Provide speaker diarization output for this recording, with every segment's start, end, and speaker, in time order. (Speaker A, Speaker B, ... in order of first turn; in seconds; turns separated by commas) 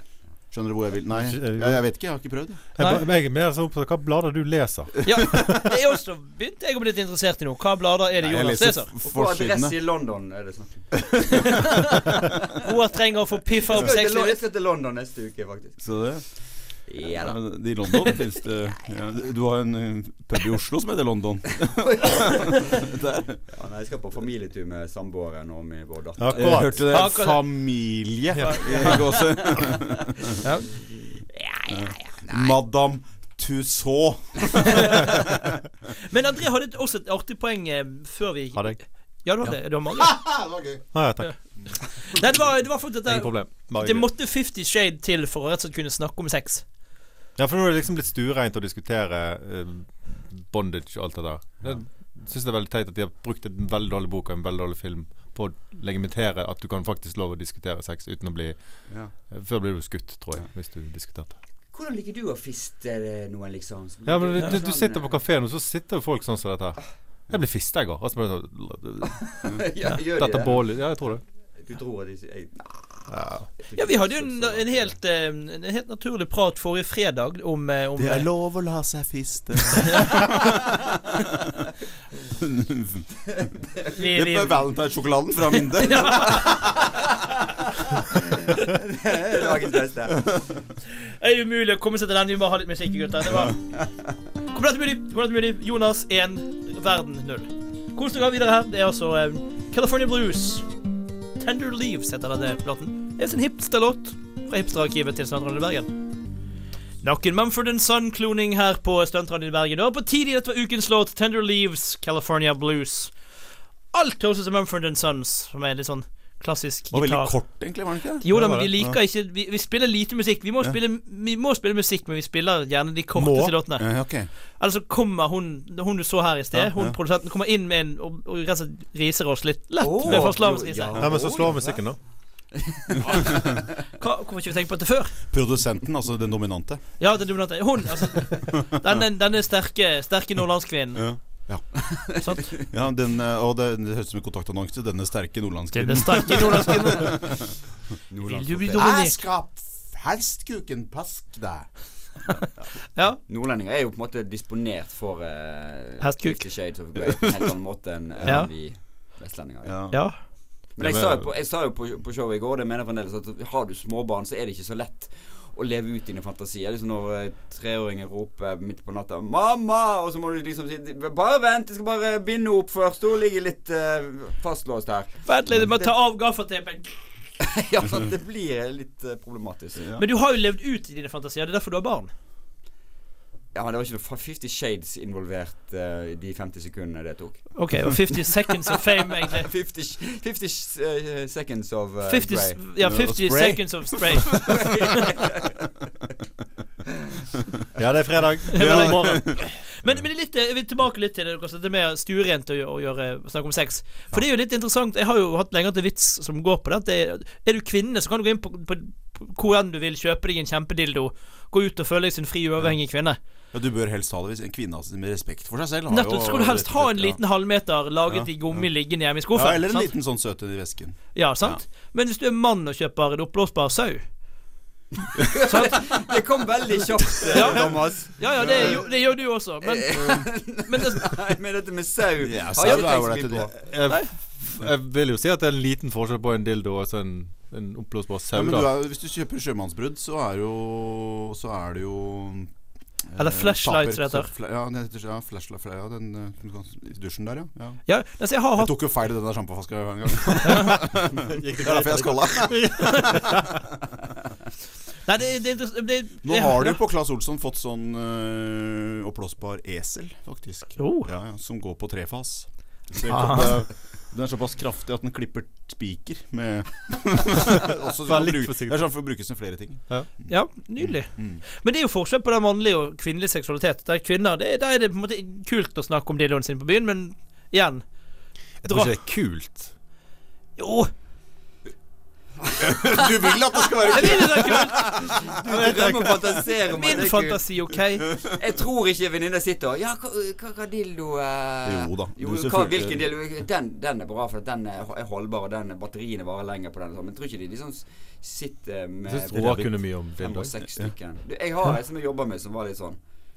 Speaker A: 0.5-2.6, Speaker B: 1.1-1.8, Speaker B: 2.7-5.7, Speaker C: 2.8-3.0, Speaker C: 5.0-8.9, Speaker A: 8.2-9.8, Speaker D: 9.0-12.6, Speaker A: 11.3-11.5, Speaker C: 11.5-12.1, Speaker C: 12.6-14.4, Speaker D: 13.7-15.8, Speaker A: 15.8-16.2, Speaker A: 16.8-23.4, Speaker D: 16.9-18.3, Speaker D: 21.8-22.9, Speaker D: 23.4-27.0, Speaker B: 26.2-26.8, Speaker A: 26.4-30.2, Speaker C: 26.9-27.4, Speaker C: 28.4-29.0, Speaker D: 28.6-29.8, Speaker C: 30.4-30.7, Speaker D: 31.1-32.5, Speaker A: 31.7-35.4, Speaker D: 34.6-35.2, Speaker C: 36.0-40.3, Speaker A: 39.4-40.8, Speaker B: 40.9-41.7, Speaker C: 41.9-46.6, Speaker B: 43.0-44.1, Speaker B: 47.4-61.3, Speaker A: 58.9-59.1, Speaker D: 61.7-65.2, Speaker B: 64.0-71.2, Speaker D: 69.0-70.8, Speaker D: 71.6-75.0, Speaker B: 73.1-73.5, Speaker C: 73.7-78.3, Speaker A: 78.0-81.2, Speaker C: 79.8-80.1, Speaker A: 82.3-83.1, Speaker D: 83.3-83.9, Speaker C: 83.9-84.6, Speaker A: 83.9-86.9, Speaker C: 85.7-86.5, Speaker D: 86.0-90.5, Speaker C: 91.0-93.6, Speaker A: 93.3-93.5, Speaker C: 94.5-100.7, Speaker C: 101.4-105.9, Speaker C: 107.0-113.1, Speaker C: 113.9-117.6, Speaker A: 116.9-119.0, Speaker C: 118.2-123.9, Speaker B: 118.3-118.7, Speaker B: 123.2-123.6, Speaker A: 123.8-124.3, Speaker C: 124.6-131.2, Speaker A: 126.7-127.0, Speaker D: 129.8-132.0, Speaker A: 130.0-130.3, Speaker B: 131.0-132.0, Speaker D: 132.5-133.7, Speaker C: 133.9-135.2, Speaker A: 135.3-137.0, Speaker C: 137.0-141.1, Speaker A: 140.9-142.2, Speaker D: 141.8-142.7, Speaker A: 142.7-147.4, Speaker C: 145.7-147.2, Speaker D: 148.1-148.9, Speaker C: 148.2-149.2, Speaker A: 148.7-151.7, Speaker C: 152.9-153.2, Speaker D: 153.2-159.9, Speaker C: 156.0-156.4, Speaker A: 158.2-158.5, Speaker A: 159.6-160.1, Speaker C: 159.9-160.2, Speaker D: 160.8-175.9, Speaker A: 160.8-161.3, Speaker C: 175.2-176.9, Speaker D: 177.4-179.9, Speaker A: 179.8-180.0, Speaker C: 179.9-182.1, Speaker D: 183.5-187.9, Speaker C: 187.6-189.5, Speaker D: 188.7-192.6, Speaker C: 192.1-195.0, Speaker A: 192.8-194.6, Speaker D: 194.3-195.6, Speaker B: 197.7-199.3, Speaker C: 198.5-213.2, Speaker A: 198.5-199.4, Speaker A: 213.5-217.2, Speaker C: 215.9-219.9, Speaker A: 218.1-218.7, Speaker A: 219.3-221.6, Speaker C: 221.1-224.0, Speaker D: 225.2-228.8, Speaker C: 225.3-225.9, Speaker C: 227.2-231.1, Speaker A: 228.4-228.8, Speaker D: 229.6-233.5, Speaker A: 232.2-233.5, Speaker B: 233.6-238.7, Speaker A: 238.3-247.8, Speaker C: 243.2-244.3, Speaker C: 247.8-248.7, Speaker A: 248.5-253.5, Speaker C: 250.4-250.7, Speaker B: 250.8-253.6, Speaker C: 255.1-256.8, Speaker A: 256.2-271.4, Speaker C: 260.8-261.1, Speaker C: 263.1-263.6, Speaker B: 268.0-268.8, Speaker C: 270.3-277.8, Speaker B: 278.6-279.7, Speaker C: 278.6-278.9, Speaker C: 280.6-280.9, Speaker D: 282.4-287.4, Speaker A: 282.6-285.9, Speaker C: 283.9-284.8, Speaker B: 285.5-286.2, Speaker C: 286.7-288.1, Speaker D: 288.2-303.0, Speaker A: 291.6-293.1, Speaker B: 299.1-300.5